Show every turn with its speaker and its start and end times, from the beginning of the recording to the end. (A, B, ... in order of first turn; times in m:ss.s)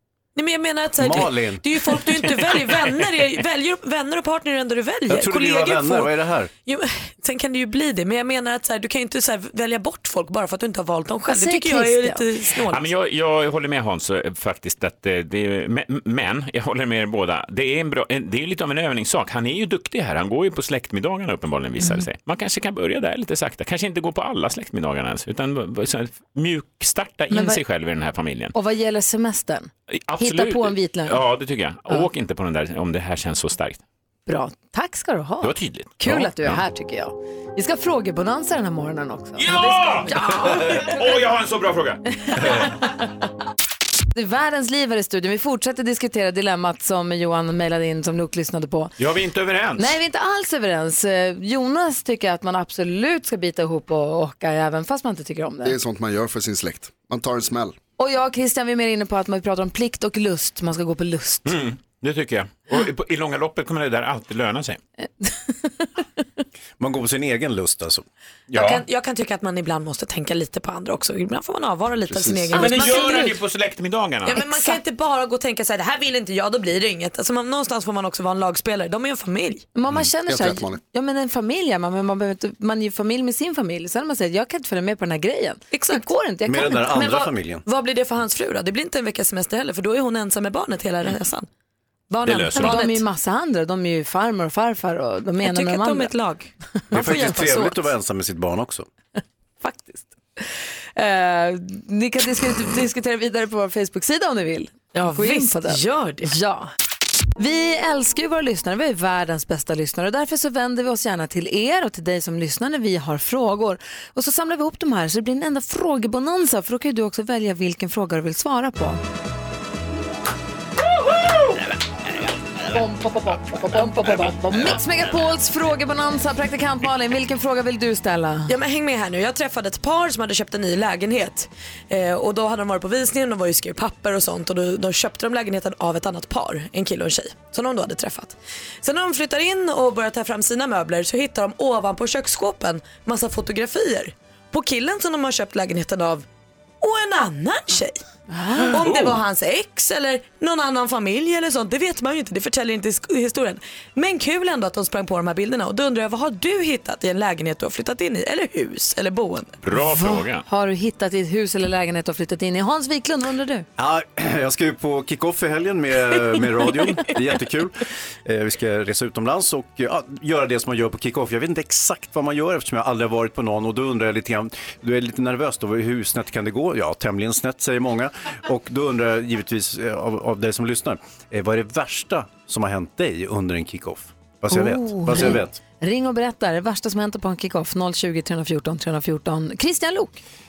0:00.4-0:06.1 A
0:01.0-0:01.6 B
0:05.1-0:06.5 B
0:06.6-0:12.8 A
0:11.3-0:12.2 C
0:12.7-0:28.5 D
0:27.3-0:27.6 C
0:28.5-0:31.2 C
0:29.9-0:33.8 D
0:34.3-0:41.0 C
0:35.4-0:36.6 D
0:39.4-0:42.0 D
0:44.2-0:49.0 C
0:49.0-0:50.0 D
0:49.8-0:55.8 C
0:55.6-0:57.8 E
0:58.0-1:01.6 C
1:01.5-1:04.8 D
1:05.2-1:06.0 C
1:06.8-1:08.0 B
1:08.5-1:08.8 D
1:08.5-1:13.4 A
1:12.1-1:12.6 E
1:12.5-1:14.4 D
1:12.6-1:13.3 C
1:14.3-1:19.7 A
1:14.4-1:14.8 C
1:19.8-1:27.0 C
1:20.3-1:20.8 E
1:25.7-1:26.1 A
1:26.5-1:27.6 B
1:26.8-1:31.5 A
1:32.1-1:33.0 A
1:32.2-1:32.8 D
1:32.6-1:36.1 C
1:35.4-1:37.8 A
1:36.9-1:38.9 B
1:39.6-1:46.7 C
1:44.9-1:46.3 A
1:47.4-1:59.0 C
2:02.7-2:08.5 C
2:08.5-2:26.3 A
2:26.8-2:28.0 A
2:28.3-2:28.8 C
2:28.6-2:39.6 A
2:28.8-2:29.2 D
2:39.6-2:40.4 D
2:39.7-2:43.7 C
2:43.8-3:05.6 B
3:04.5-3:10.2 C